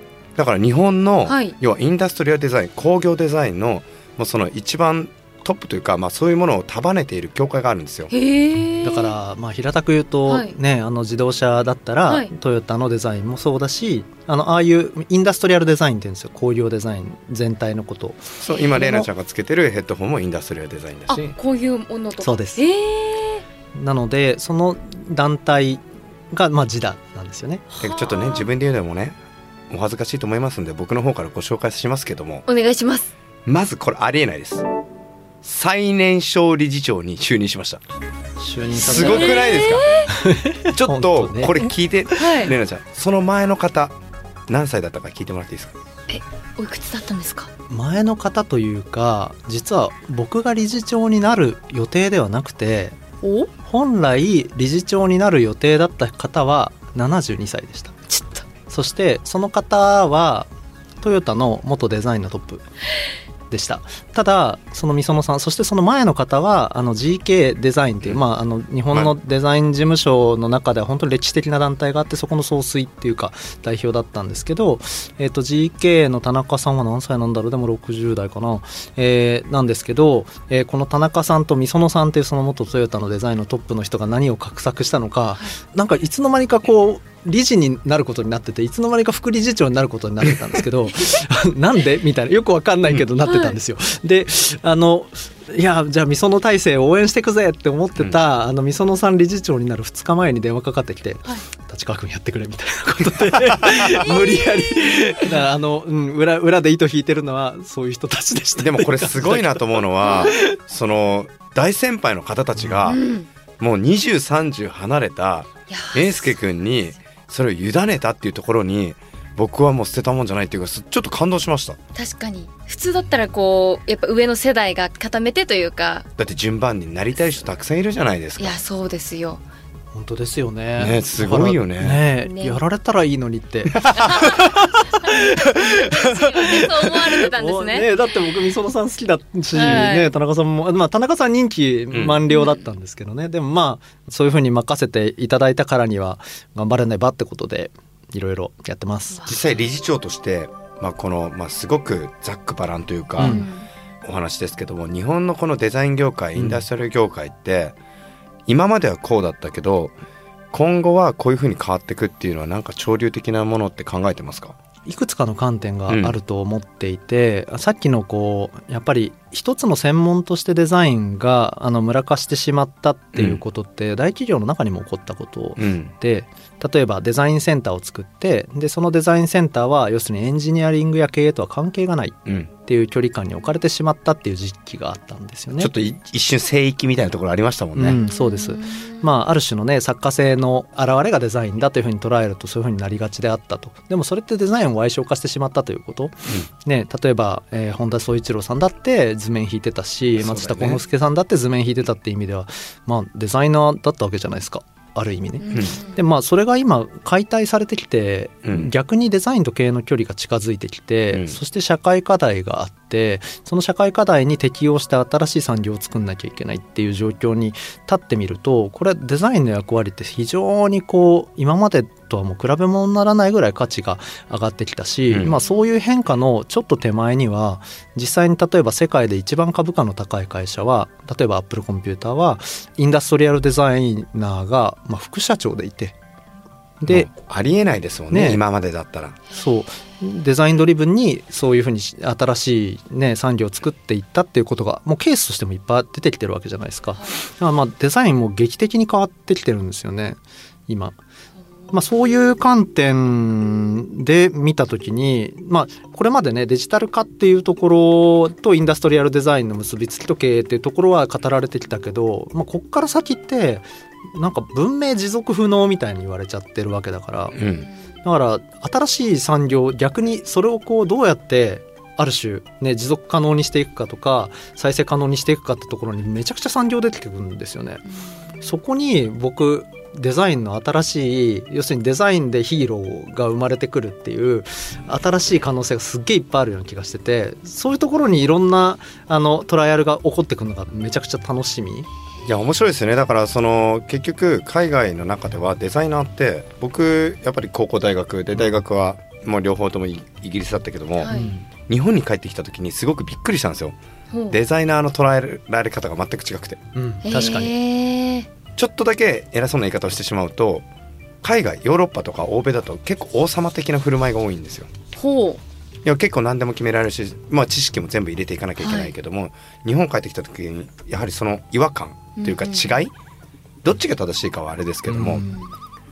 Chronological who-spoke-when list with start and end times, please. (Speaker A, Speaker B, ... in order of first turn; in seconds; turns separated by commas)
Speaker A: 0.3-8.1, Speaker B: 1.2-1.5, Speaker B: 8.1-9.2, Speaker C: 8.8-19.1, Speaker B: 10.2-10.5, Speaker A: 18.4-21.4, Speaker B: 18.6-19.0, Speaker B: 21.1-23.4, Speaker C: 22.2-22.6, Speaker C: 23.7-27.6, Speaker B: 27.7-28.5, Speaker A: 27.8-29.2, Speaker A: 29.7-32.5, Speaker B: 32.5-33.1, Speaker A: 33.5-34.6, Speaker A: 35.4-37.8, Speaker C: 38.4-39.4, Speaker A: 38.8-39.9, Speaker B: 38.8-40.1, Speaker C: 40.1-41.7, Speaker A: 40.7-43.9, Speaker B: 42.2-42.5, Speaker A: 44.5-45.7, Speaker B: 46.1-47.5, Speaker C: 47.7-53.0, Speaker B: 53.2-53.5, Speaker C: 53.6-57.9, Speaker B: 58.1-58.4, Speaker C: 58.7-60.5, Speaker C: 61.0-62.6, Speaker C: 63.5-110.5, Speaker B: 93.2-93.6, Speaker B: 103.7-105.4, Speaker A: 108.6-113.0, Speaker B: 110.0-110.3, Speaker B: 112.8-113.3, Speaker A: 113.6-121.8, Speaker B: 115.7-116.8, Speaker B: 121.9-126.1, Speaker A: 126.2-128.6, Speaker B: 128.4-129.4, Speaker C: 129.9-149.3, Speaker A: 130.8-132.0, Speaker B: 132.2-132.6, Speaker A: 133.9-134.2, Speaker B: 134.0-134.5, Speaker B: 135.6-137.9, Speaker B: 139.5-140.1, Speaker A: 141.9-142.2, Speaker B: 142.3-142.6, Speaker B: 149.1-149.6, Speaker A: 149.2-153.5, Speaker C: 153.2-153.4, Speaker B: 153.2-153.7, Speaker A: 154.0-157.8, Speaker C: 156.3-156.6, Speaker A: 158.5-159.9, Speaker A: 160.5-164.5, Speaker C: 164.8-185.7, Speaker A: 165.9-166.2, Speaker A: 173.1-173.4, Speaker A: 175.6-175.9, Speaker A: 185.6-188.0, Speaker C: 187.7-235.9, Speaker B: 187.9-189.0, Speaker A: 200.2-200.8, Speaker B: 205.4-206.0, Speaker A: 211.1-211.4, Speaker A: 225.1-225.4, Speaker C: 236.8-237.1, Speaker A: 236.9-239.2, Speaker C: 238.1-238.4, Speaker C: 239.3-251.0, Speaker C: 251.7-267.4, Speaker A: 267.3-267.7, Speaker C: 268.0-277.8, Speaker C: 278.4-291.9, Speaker A: 292.2-301.1, Speaker C: 298.3-298.6, Speaker B: 301.0-301.3, Speaker C: 301.1-301.5, Speaker A: 301.6-303.7, Speaker B: 304.1-304.4, Speaker A: 304.3-306.6, Speaker C: 306.7-307.5, Speaker B: 307.0-308.3, Speaker A: 308.5-310.6, Speaker A: 311.2-314.7, Speaker B: 314.9-315.4, Speaker A: 315.8-322.9, Speaker B: 318.6-318.9, Speaker B: 322.1-322.8, Speaker A: 323.6-325.2, Speaker C: 324.9-325.3, Speaker B: 325.2-325.5